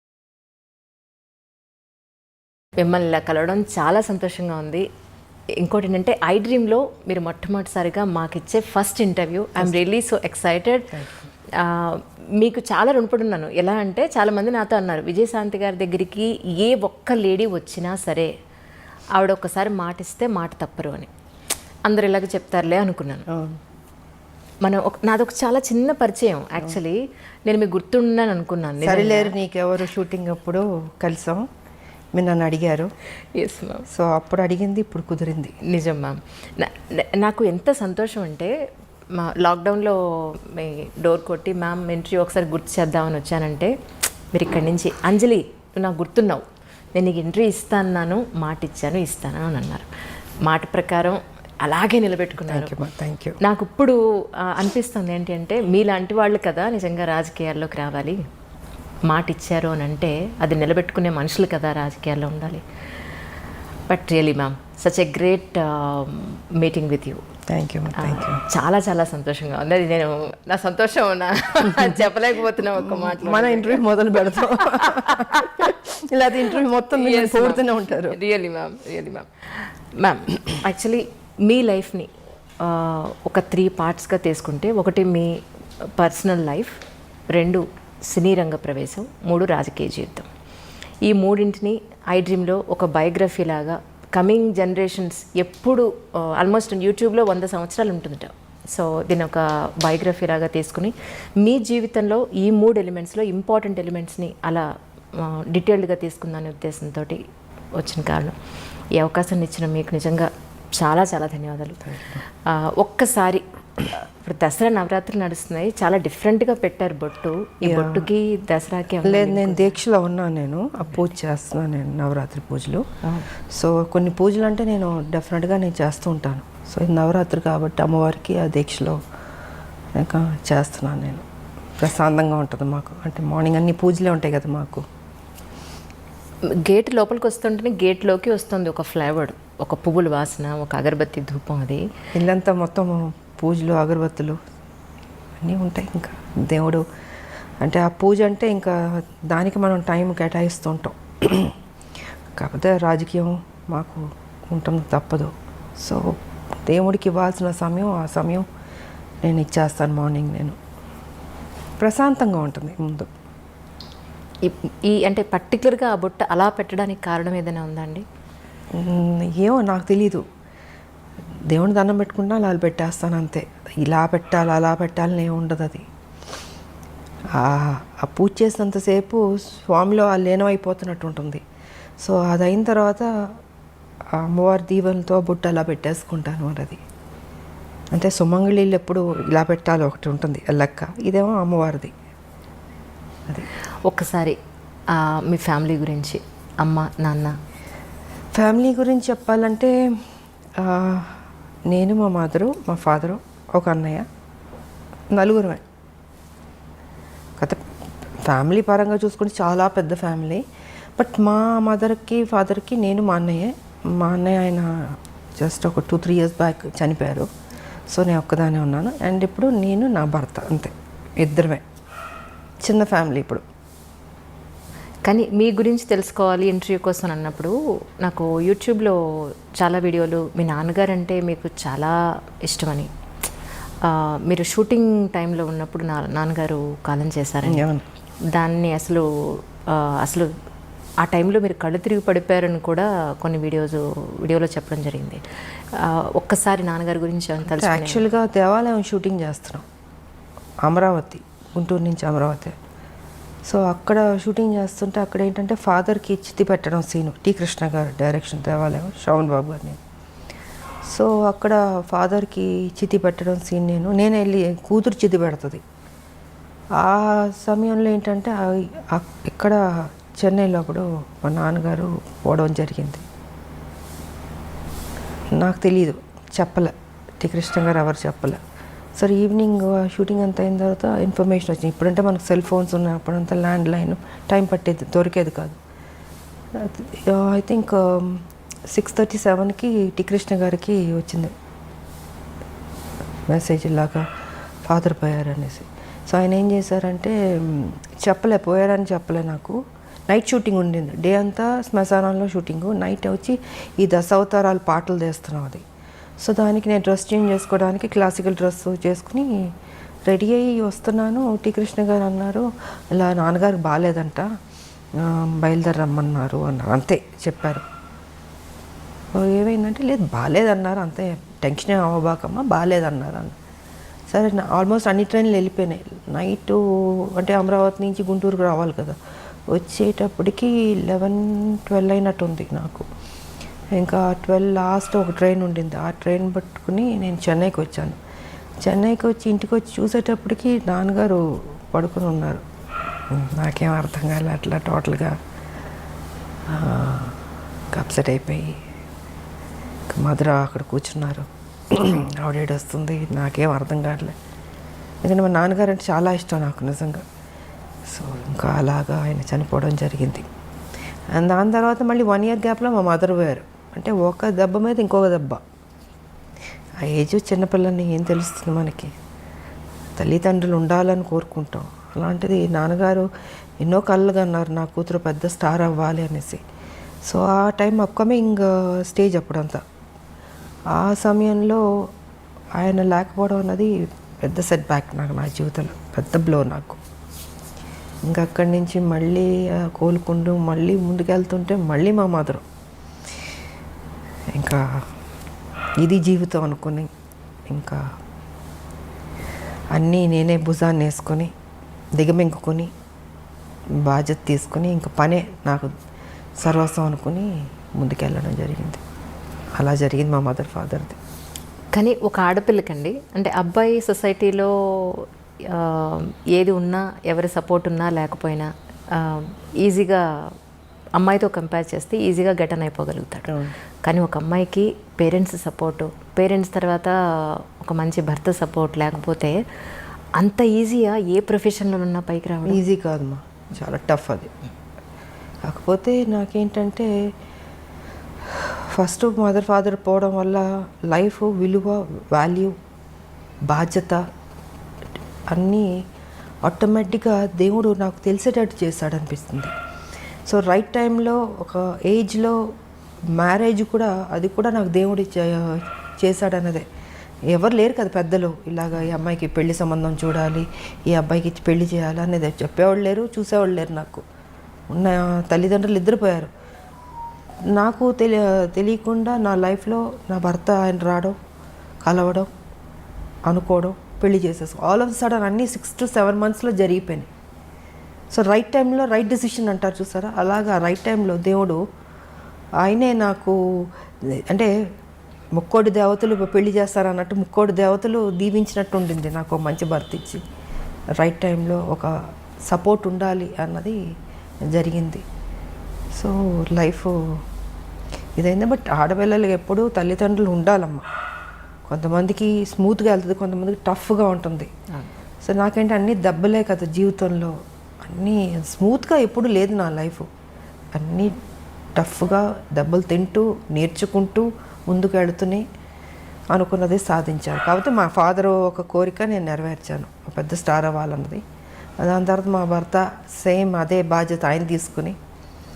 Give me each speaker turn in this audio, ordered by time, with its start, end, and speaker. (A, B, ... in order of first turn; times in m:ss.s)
0:02.8-0:04.8 A
0:05.6-0:10.9 A
0:10.9-0:11.3 B
0:11.6-0:18.3 A
0:19.1-0:21.1 A
0:21.8-0:23.3 A
0:23.3-0:23.6 B
0:24.6-0:29.3 A
0:28.8-0:31.4 B
0:32.1-0:32.9 B
0:33.4-0:33.8 A
0:33.9-0:35.6 B
0:35.6-0:38.5 A
0:39.2-0:43.7 A
0:44.3-0:46.4 A
0:46.9-0:49.9 A
0:50.4-0:52.7 A
0:52.4-0:53.4 B
0:53.4-0:58.2 A
0:59.1-1:02.6 A
1:03.9-1:07.2 A
1:07.5-1:08.4 B
1:07.9-1:15.7 A
1:12.7-1:18.2 B
1:16.5-1:22.1 A
1:22.6-1:25.3 A
1:26.0-1:26.8 A
1:27.3-1:30.3 A
1:31.0-1:47.2 A
1:47.8-1:48.3 A
1:49.0-1:51.9 A
1:51.8-1:52.2 B
1:52.4-1:59.8 A
1:57.6-1:58.1 B
1:59.0-2:02.8 B
2:03.5-2:09.0 B
2:09.9-2:11.2 B
2:11.8-2:14.8 B
2:16.6-2:21.8 A
2:22.1-2:24.4 B
2:25.4-2:26.8 B
2:27.6-2:31.5 B
2:32.4-2:36.1 B
2:36.7-2:38.4 B
2:39.2-2:40.6 B
2:41.8-2:43.1 B
2:44.4-2:48.0 A
2:48.7-2:50.2 B
2:51.5-2:55.8 B
2:57.4-3:01.4 B
3:02.0-3:03.1 B
3:04.2-3:06.8 B
3:07.9-3:11.9 B
3:13.9-3:14.4 A
3:14.9-3:17.3 A
3:18.3-3:19.7 B
3:20.6-3:24.0 B
3:25.1-3:25.6 B
3:28.2-3:30.4 B
3:31.0-3:37.3 B
3:37.9-3:41.6 B
3:42.6-3:43.4 B
3:45.0-3:49.0 A
3:49.6-3:52.9 A
3:53.8-3:57.6 A
3:57.4-3:57.8 B
3:58.3-4:00.3 A
4:01.0-4:05.2 A
4:05.8-4:08.0 A
4:07.5-4:09.6 B
4:10.6-4:12.5 B
4:13.4-4:19.8 B
4:20.9-4:25.6 B
4:26.8-4:29.6 B
4:30.2-4:33.0 B
4:35.4-4:38.4 B
4:39.0-4:45.6 B
4:46.5-4:51.3 B
4:53.3-4:54.0 B
4:54.6-4:59.6 B
5:00.1-5:05.6 B
5:06.2-5:09.3 B
5:10.1-5:14.3 B
5:15.0-5:17.6 B
5:19.1-5:23.3 B
5:24.1-5:26.6 B
5:27.1-5:29.0 B
5:29.5-5:32.8 B
5:33.7-5:38.0 B
5:38.6-5:41.2 B
5:41.7-5:42.4 B
5:43.1-5:45.2 B
5:46.5-5:47.2 B
5:47.7-5:48.6 B
5:49.9-5:54.1 B
5:55.0-5:57.0 B
5:57.9-6:00.2 B
6:01.1-6:05.4 B
6:06.8-6:08.9 B
6:10.0-6:13.0 B
6:13.6-6:16.4 B
6:17.1-6:19.6 B
6:20.7-6:21.6 B
6:22.6-6:23.7 B
6:24.2-6:26.8 B
6:28.0-6:32.4 B
6:34.3-6:34.6 B
6:35.8-6:36.9 B
6:37.5-6:37.8 B
6:39.7-6:41.3 B
6:42.0-6:42.7 B
6:43.8-6:45.7 B
6:46.4-6:48.8 B
6:49.6-6:51.0 B
6:51.7-7:00.0 A
7:01.0-7:09.4 A
7:03.3-7:03.5 B
7:10.2-7:12.6 A
7:12.4-7:14.3 B
7:15.4-7:16.9 B
7:18.3-7:22.5 B
7:23.5-7:24.0 B
7:25.3-7:25.6 B
7:26.4-7:29.5 B
7:30.3-7:32.4 B
7:33.2-7:36.6 B
7:37.3-7:44.0 B
7:44.7-7:46.3 B
7:47.5-7:51.1 B
7:51.8-7:52.3 B
7:53.3-7:57.1 B
7:58.1-8:01.6 B
8:02.6-8:03.4 B
8:05.4-8:10.2 B
8:11.0-8:11.9 B
8:12.4-8:13.8 B
8:14.5-8:15.0 B
8:15.9-8:17.2 B
8:18.2-8:20.9 B
8:21.7-8:24.5 B
8:25.2-8:30.1 B
8:30.7-8:31.1 B
8:31.8-8:35.4 B
8:36.3-8:41.2 B
8:41.8-8:45.0 B